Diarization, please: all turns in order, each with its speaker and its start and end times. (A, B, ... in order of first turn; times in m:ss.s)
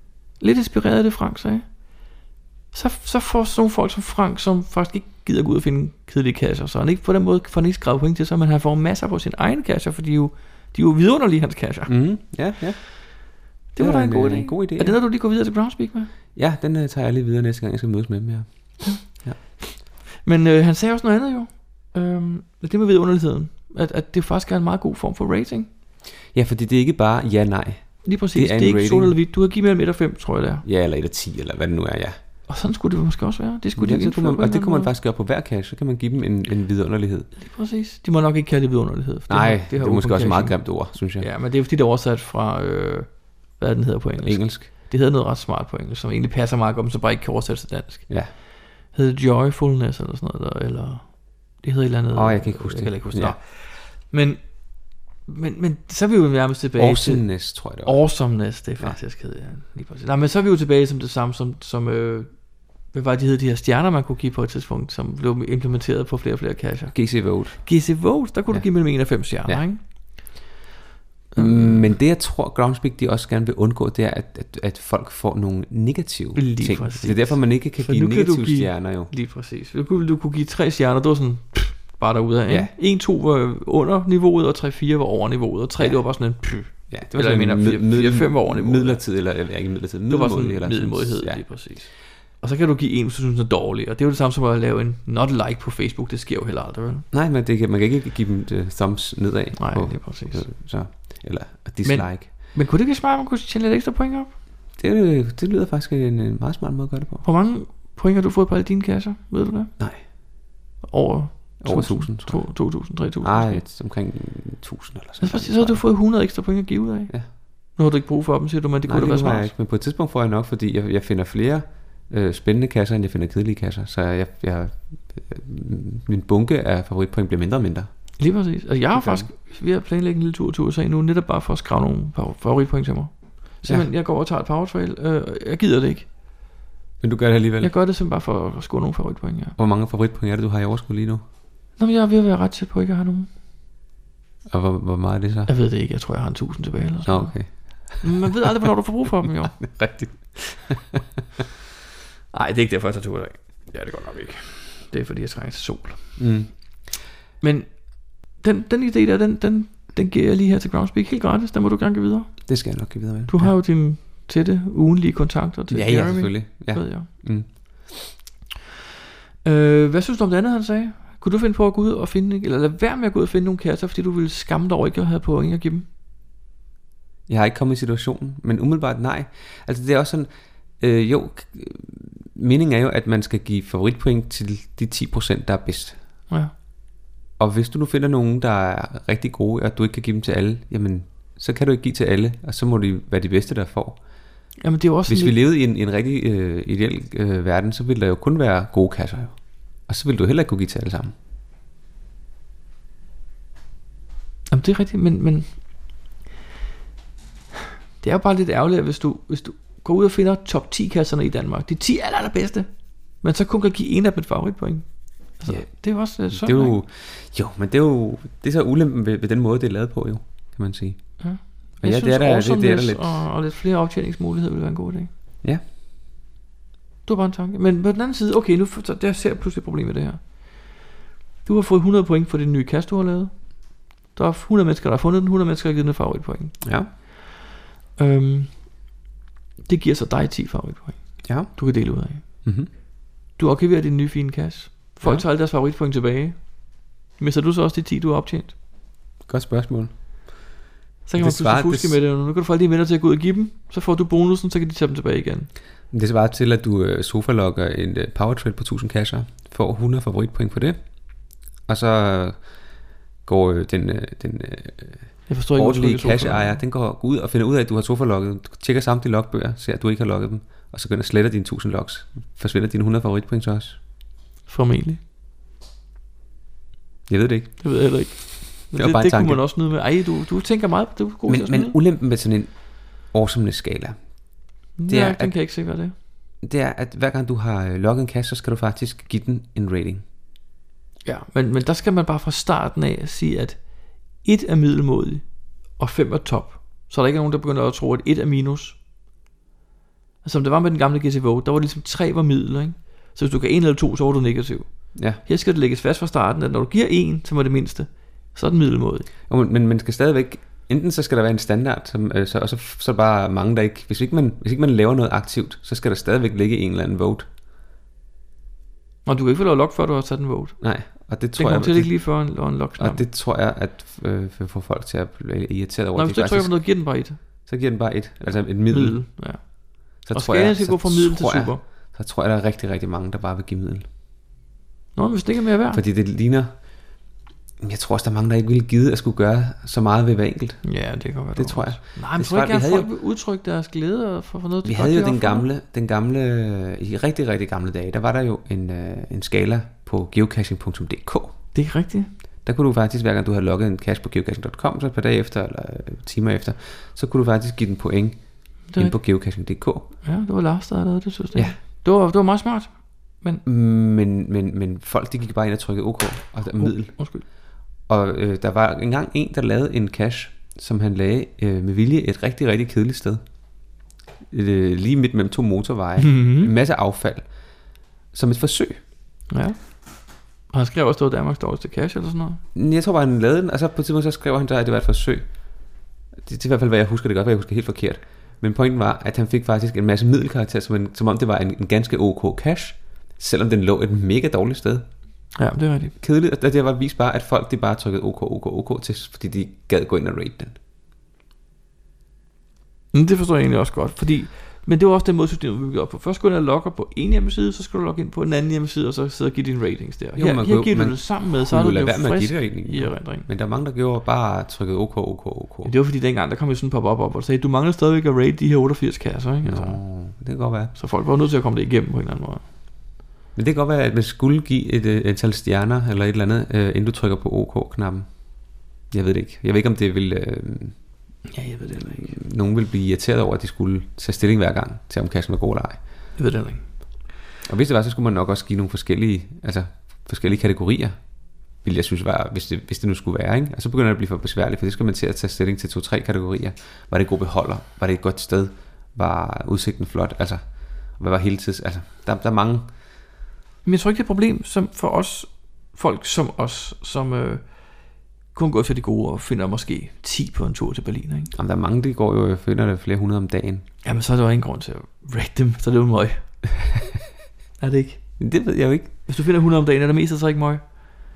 0:00.4-0:01.7 A
0:02.7-0:12.3 A
0:11.9-0:15.0 B
0:13.7-0:16.1 A
0:16.3-0:19.4 B
0:18.8-0:25.7 A
0:26.3-0:29.2 B
0:28.0-0:30.6 A
0:30.6-0:32.2 B
0:32.5-0:34.9 A
0:33.7-0:37.3 B
0:37.4-1:10.4 A
0:39.3-0:41.3 B
0:44.2-0:44.7 B
0:52.1-0:53.4 B
0:56.8-0:58.1 B
1:06.9-1:07.8 B
1:08.5-1:09.6 B
1:11.3-1:11.9 A
1:11.4-1:19.1 B
1:16.4-1:29.4 A
1:22.5-1:22.7 B
1:25.8-1:31.8 B
1:30.1-1:37.0 A
1:37.1-1:42.3 B
1:39.6-1:40.5 A
1:41.8-1:44.3 A
1:44.8-1:47.2 B
1:47.2-1:49.7 A
1:49.8-1:50.0 B
1:50.8-1:53.6 A
1:51.6-1:55.9 B
1:55.2-1:59.5 A
1:58.9-2:08.1 B
2:08.2-2:16.1 A
2:08.9-2:09.3 B
2:17.0-2:17.7 B
2:17.6-2:19.6 A
2:19.6-2:21.2 B
2:21.8-2:23.3 A
2:24.5-2:25.5 B
2:25.5-2:29.6 A
2:27.0-2:28.1 B
2:29.6-2:31.0 B
2:32.3-2:36.2 A
2:36.2-2:36.9 B
2:37.4-2:42.8 A
2:42.5-2:43.5 B
2:43.3-2:47.1 A
2:45.7-2:48.1 B
2:49.4-2:55.8 A
2:57.3-3:06.0 B
3:07.4-3:14.0 B
3:14.6-3:15.4 A
3:15.1-3:21.1 B
3:24.5-3:25.6 A
3:28.0-3:36.8 A
3:35.5-3:43.3 B
3:41.2-3:45.1 A
3:47.0-3:50.8 A
3:51.4-3:57.0 A
3:56.6-3:56.9 B
3:58.0-3:58.9 A
3:59.6-4:02.8 A
4:01.2-4:01.5 B
4:02.2-4:02.7 B
4:03.4-4:08.5 A
4:09.2-4:10.5 B
4:11.0-4:15.5 A
4:11.2-4:12.0 B
4:15.9-4:22.6 B
4:23.2-4:33.8 B
4:25.3-4:26.6 A
4:34.5-4:35.0 A
4:37.1-4:39.4 B
4:37.6-4:41.8 A
4:41.3-4:44.3 B
4:44.8-4:45.9 A
4:44.8-4:45.4 B
4:46.4-4:50.0 B
4:51.0-4:58.8 A
5:00.2-5:09.1 A
5:04.9-5:05.2 B
5:09.3-5:17.3 B
5:19.0-5:23.0 A
5:20.6-5:29.4 B
5:25.9-5:27.5 A
5:28.2-5:31.6 A
5:30.0-5:33.8 B
5:34.9-5:35.8 A
5:35.7-5:36.6 B
5:37.6-5:42.9 B
5:40.6-5:45.4 A
5:44.6-5:51.4 B
5:51.5-5:52.1 A
5:52.4-5:59.9 B
5:58.7-5:59.0 A
6:00.0-6:03.4 A
6:03.4-6:07.0 B
6:06.5-6:07.2 A
6:07.8-6:13.2 B
6:14.3-6:17.6 B
6:16.0-6:16.5 A
6:18.1-6:18.8 B
6:19.3-6:22.4 A
6:22.5-6:34.9 B
6:35.3-6:35.9 A
6:36.0-6:40.6 B
6:42.9-6:53.3 A
6:50.2-6:55.7 B
6:55.6-6:59.8 A
6:59.4-7:00.7 B
7:00.7-7:02.4 A
7:03.3-7:10.8 B
7:11.3-7:12.2 A
7:11.9-7:15.8 B
7:16.2-7:16.7 A
7:17.4-7:21.0 B
7:21.6-7:32.7 B
7:33.6-7:41.3 A
7:41.3-7:43.6 B
7:43.8-7:46.4 A
7:47.6-7:48.2 A
7:48.2-7:48.9 B
7:49.0-7:50.7 A